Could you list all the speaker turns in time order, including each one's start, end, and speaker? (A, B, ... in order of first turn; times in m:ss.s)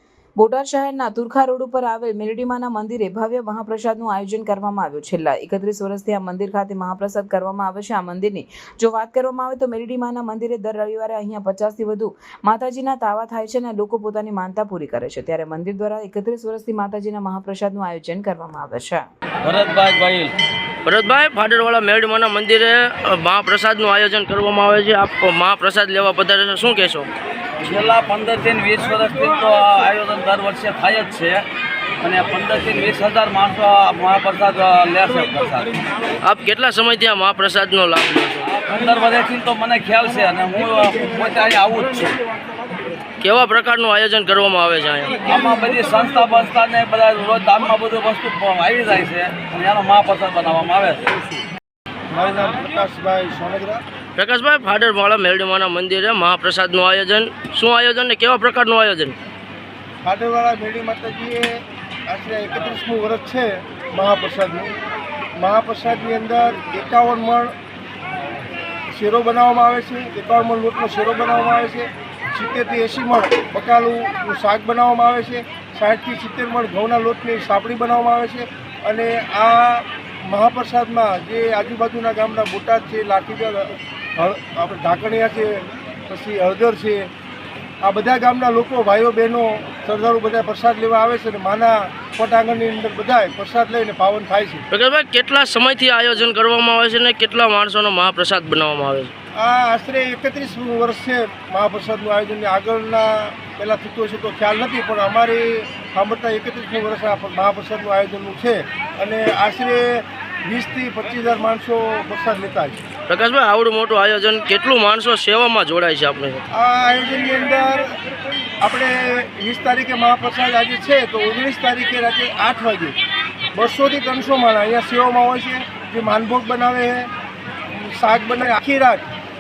0:00.4-0:19.0 A
0:19.4-0:20.4 B
0:20.8-0:27.1 C
0:27.6-0:31.4 B
0:32.0-0:35.7 B
0:36.2-0:38.5 C
0:38.5-0:42.2 B
0:43.2-0:45.2 C
0:45.2-0:51.1 B
0:52.1-0:53.8 D
0:54.2-0:59.2 C
1:00.0-1:04.7 D
1:05.4-1:07.5 D
1:08.9-1:27.1 D
1:27.8-1:34.6 D
1:34.7-1:39.1 C
1:39.4-1:52.8 D
1:53.1-1:56.4 C
1:56.5-1:58.0 D
1:58.6-2:03.0 D
2:03.5-2:07.1 D
2:07.7-2:09.1 D